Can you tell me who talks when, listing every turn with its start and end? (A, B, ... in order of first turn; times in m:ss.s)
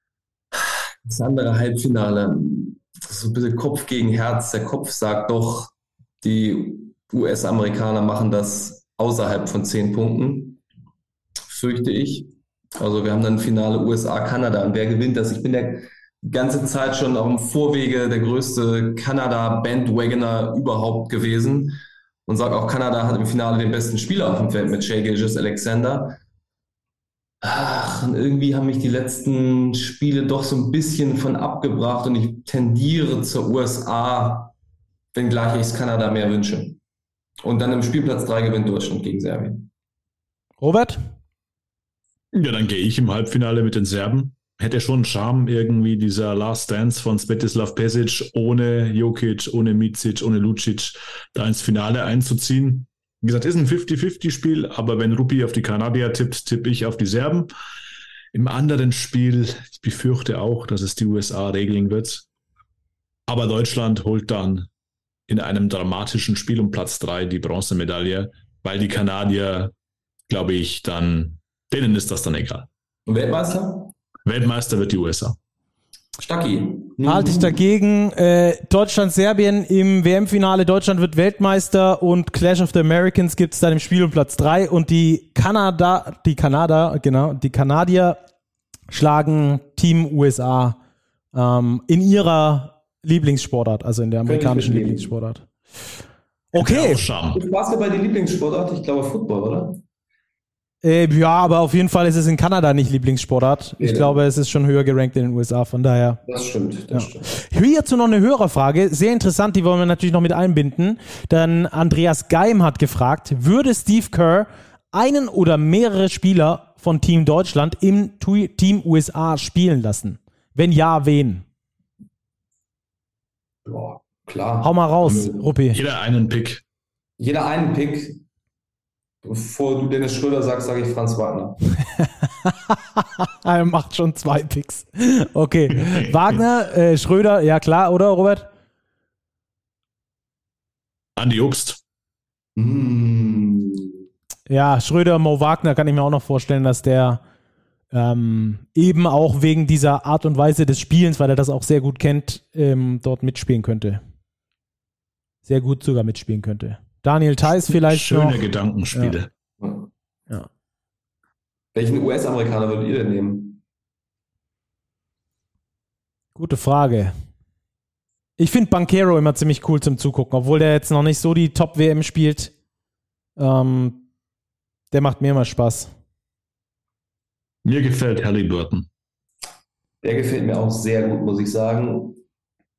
0:00.5-0:10.6 A
0:11.5-0:26.2 A
0:27.4-0:34.5 A
0:35.1-0:36.8 A
0:37.4-0:39.7 A
0:40.6-0:41.0 B
0:42.3-0:57.5 C
0:58.3-1:02.2 C
1:03.3-1:04.7 C
1:05.3-1:09.7 C
1:10.3-1:12.7 C
1:13.1-1:13.9 A
1:14.2-1:15.4 C
1:16.2-1:17.6 A
1:17.0-1:28.2 B
1:28.9-1:30.8 B
1:31.3-1:35.5 B
1:34.2-1:35.1 A
1:36.5-1:37.0 B
1:36.5-1:37.4 C
1:37.3-1:39.8 A
1:40.8-1:46.2 B
1:43.8-1:44.2 A
1:46.3-1:47.3 A
1:46.9-2:01.4 B
2:03.6-2:05.5 A
2:04.6-2:05.8 B
2:05.7-2:06.6 C
2:07.2-2:08.2 A
2:09.2-2:11.6 A
2:12.4-2:18.5 B
2:15.7-2:16.4 C
2:21.2-2:21.8 C
2:22.6-2:24.0 A
2:24.5-2:27.2 B
2:27.9-2:34.0 B
2:35.4-2:38.4 B
2:37.4-2:39.3 C
2:39.6-2:39.9 A
2:41.7-2:43.6 A
2:46.4-2:47.1 B
2:48.4-2:52.5 B
2:53.4-2:54.0 B
2:54.9-2:55.9 B
2:57.6-2:58.9 C
3:00.0-3:02.2 A